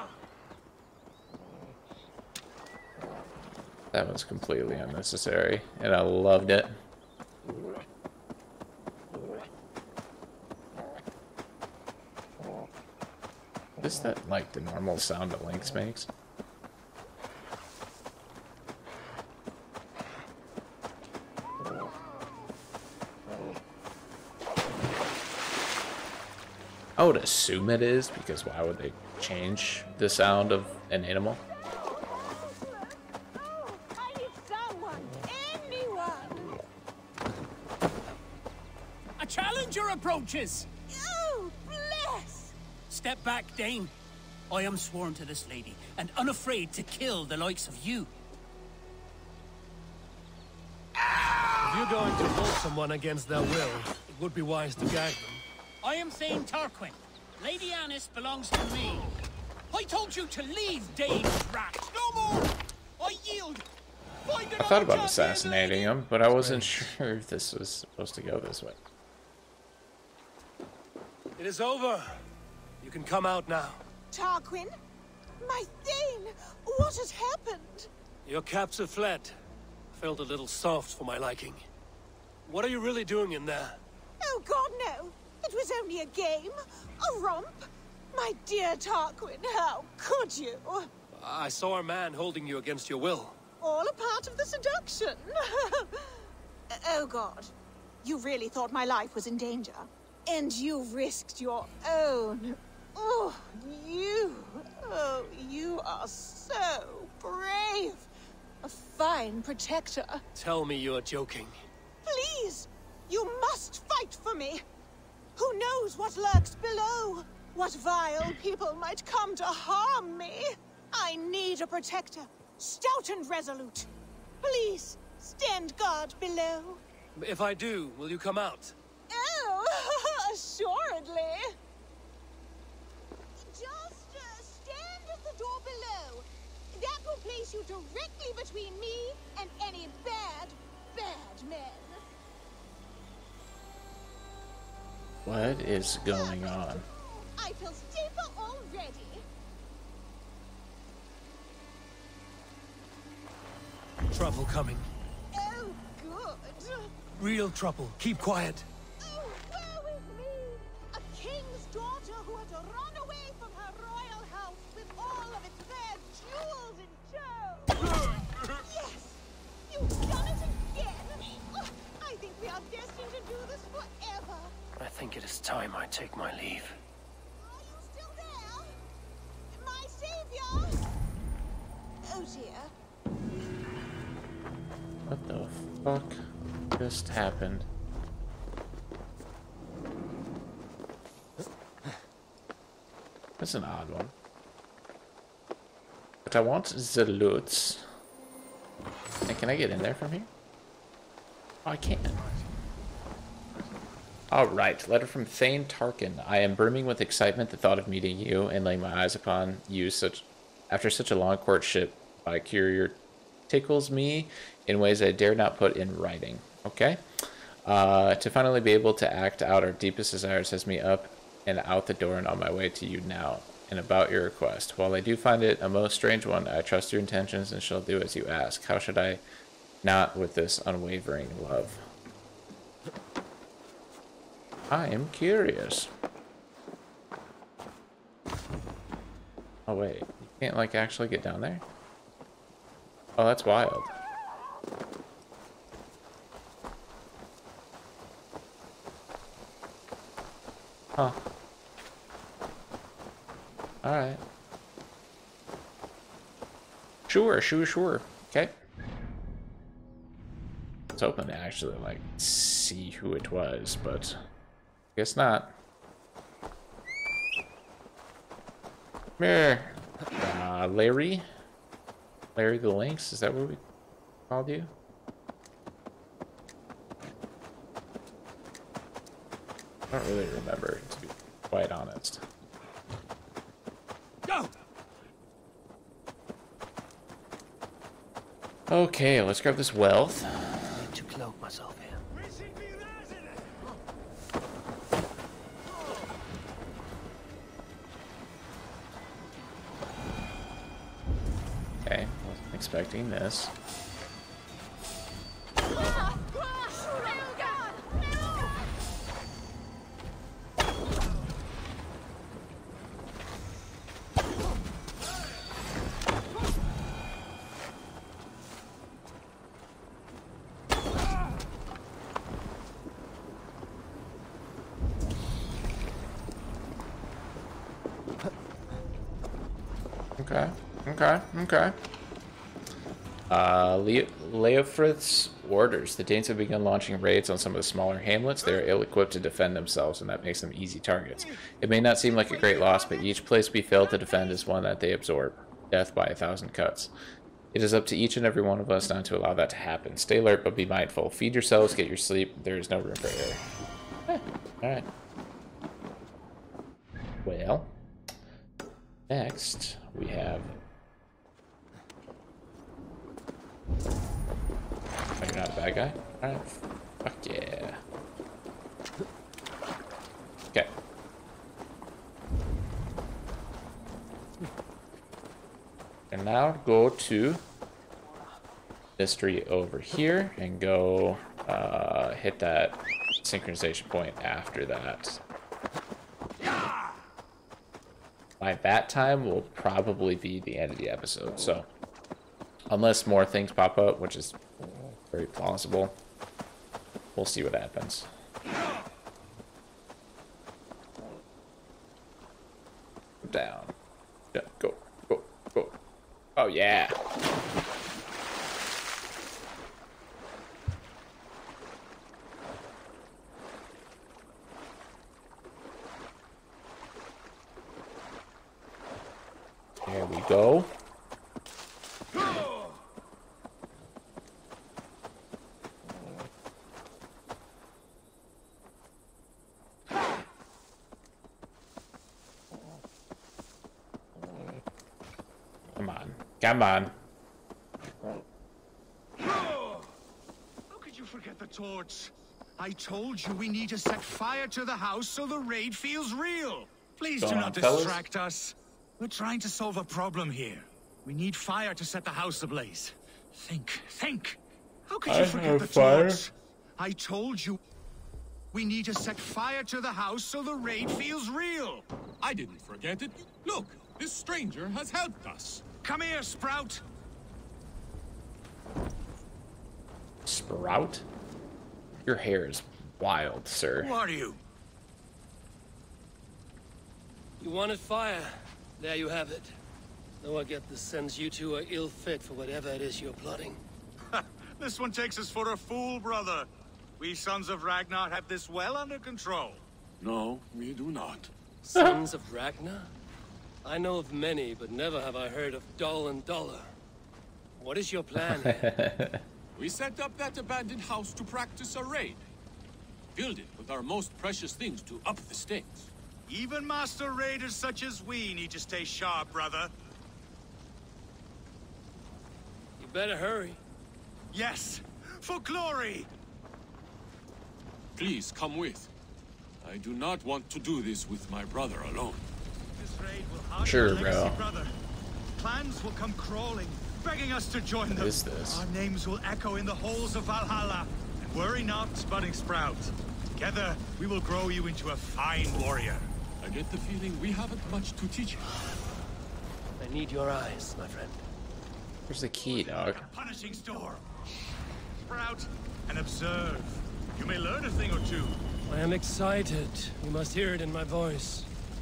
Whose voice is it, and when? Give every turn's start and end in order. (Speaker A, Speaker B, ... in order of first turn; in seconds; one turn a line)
Speaker A: 3.9-6.8
Speaker A: 13.8-16.1
Speaker A: 27.0-31.4
Speaker B: 31.6-36.5
Speaker C: 39.2-40.7
Speaker B: 40.9-42.5
Speaker C: 42.9-43.9
Speaker C: 44.5-48.1
Speaker D: 51.6-55.4
Speaker C: 55.8-59.1
Speaker C: 59.7-62.4
Speaker C: 63.0-63.6
Speaker A: 64.6-68.8
Speaker E: 64.7-65.8
Speaker D: 66.4-66.9
Speaker D: 71.4-72.2
Speaker D: 72.8-73.8
Speaker B: 74.1-74.7
Speaker B: 75.4-77.9
Speaker D: 78.2-79.3
Speaker D: 79.9-81.7
Speaker D: 82.5-83.8
Speaker B: 84.2-90.9
Speaker D: 91.1-93.4
Speaker B: 93.6-108.1
Speaker B: 108.6-110.2
Speaker D: 110.3-111.6
Speaker B: 112.0-114.6
Speaker B: 115.4-123.9
Speaker B: 124.4-126.8
Speaker D: 127.2-128.8
Speaker B: 129.1-131.6
Speaker B: 133.4-142.1
Speaker A: 145.2-146.8
Speaker B: 146.0-149.2
Speaker D: 154.1-154.9
Speaker B: 155.3-156.9
Speaker D: 157.2-158.7
Speaker B: 159.0-174.5
Speaker D: 174.8-176.8
Speaker B: 177.4-178.8
Speaker B: 179.5-180.8
Speaker B: 182.1-182.7
Speaker A: 185.1-186.2
Speaker A: 186.8-187.7
Speaker A: 193.4-194.1
Speaker A: 196.2-197.8
Speaker A: 199.3-200.3
Speaker A: 201.7-202.2
Speaker A: 204.3-217.0
Speaker A: 217.7-229.2
Speaker A: 229.8-231.8
Speaker A: 234.7-235.9
Speaker A: 239.7-241.7
Speaker A: 243.2-243.9
Speaker A: 253.8-254.2
Speaker A: 257.1-258.6
Speaker A: 261.0-264.2
Speaker A: 264.9-265.6
Speaker A: 269.2-271.2
Speaker A: 272.4-273.6
Speaker A: 274.3-274.7
Speaker A: 279.9-282.2
Speaker A: 288.7-290.8
Speaker D: 290.7-292.0
Speaker A: 301.9-303.5
Speaker B: 305.7-308.5
Speaker A: 330.2-331.8
Speaker A: 333.3-346.9
Speaker A: 347.5-353.4
Speaker A: 354.1-354.9
Speaker A: 357.2-357.8
Speaker A: 359.1-360.6
Speaker A: 365.2-367.8
Speaker A: 376.1-377.4
Speaker A: 379.0-385.2
Speaker A: 388.4-391.7
Speaker A: 392.7-394.4
Speaker A: 395.1-396.0
Speaker A: 397.1-398.1
Speaker A: 403.2-403.8
Speaker A: 404.3-405.8
Speaker A: 406.4-407.0
Speaker A: 419.9-420.7
Speaker A: 435.8-437.0
Speaker F: 440.7-457.6
Speaker A: 447.2-448.0
Speaker A: 455.1-456.2
Speaker F: 458.5-461.9
Speaker E: 462.2-465.6
Speaker F: 465.8-466.8
Speaker A: 470.3-471.1
Speaker A: 472.1-474.0
Speaker F: 473.8-474.4
Speaker D: 477.4-479.5
Speaker D: 480.2-483.6
Speaker F: 484.1-489.6
Speaker E: 490.0-491.3
Speaker D: 491.6-492.9
Speaker A: 491.8-492.0
Speaker D: 493.6-496.7
Speaker D: 497.6-498.6
Speaker A: 498.2-499.2
Speaker E: 499.6-502.2
Speaker E: 503.1-505.9
Speaker F: 506.3-509.7
Speaker D: 512.8-513.6
Speaker F: 514.3-516.1
Speaker E: 518.0-518.9
Speaker E: 519.6-522.3
Speaker F: 522.8-524.7
Speaker A: 523.6-524.4
Speaker F: 525.4-536.1
Speaker A: 527.9-528.7
Speaker E: 536.4-538.5
Speaker D: 539.8-541.2
Speaker A: 542.1-543.1
Speaker F: 542.5-544.1
Speaker F: 545.0-548.4
Speaker D: 548.7-551.5